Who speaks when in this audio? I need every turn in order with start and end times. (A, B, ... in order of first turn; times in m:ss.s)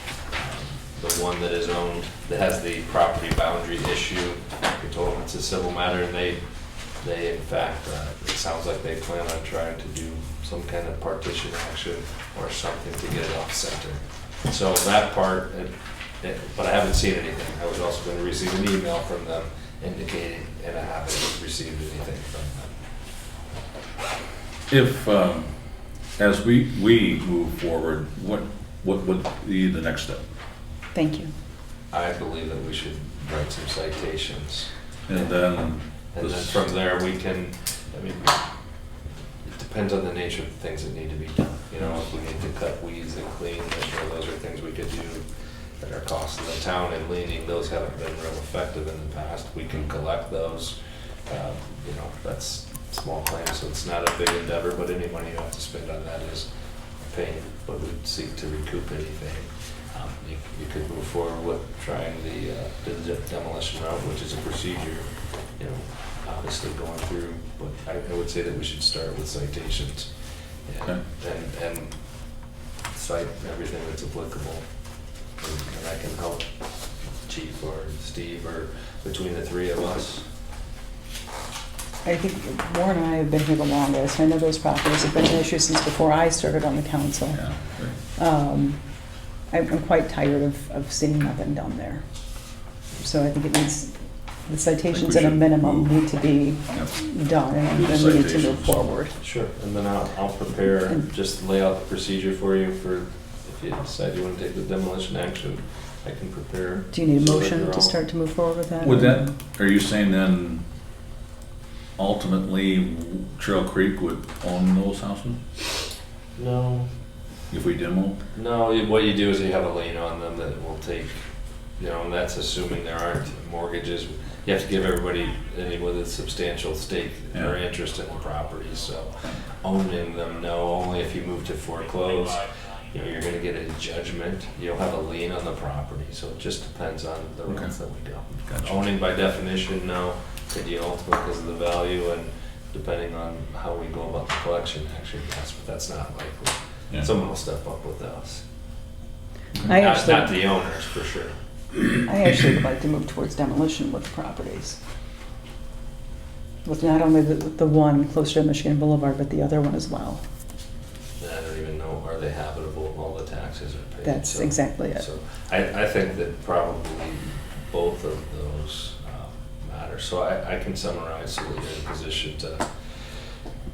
0:00.3-0:22.7 A
0:24.7-0:25.6 B
0:26.2-0:30.2 B
0:30.9-0:31.3 C
0:31.9-0:35.3 A
0:35.1-0:36.6 B
0:36.1-0:38.4 A
0:39.4-0:45.3 A
0:45.8-0:50.8 A
0:51.3-0:56.5 A
0:57.0-1:10.1 A
1:10.6-1:12.0 A
1:12.9-1:14.7 A
1:15.2-1:20.2 A
1:22.0-1:27.5 C
1:27.3-1:28.0 B
1:28.1-1:28.8 C
1:29.5-1:32.0 C
1:33.0-1:39.1 C
1:34.9-1:36.1 B
1:37.7-1:38.9 B
1:39.2-1:47.9 A
1:46.9-1:49.3 C
1:48.8-1:50.6 B
1:52.0-1:55.4 B
1:56.4-1:56.9 A
1:57.5-1:58.2 B
1:58.3-2:01.2 A
2:01.8-2:28.4 A
2:17.5-2:17.7 B
2:18.5-2:18.7 B
2:29.6-2:30.4 C
2:29.7-2:31.4 A
2:32.0-2:34.8 C
2:36.6-2:40.2 C
2:41.2-2:53.4 A
2:44.0-2:45.0 C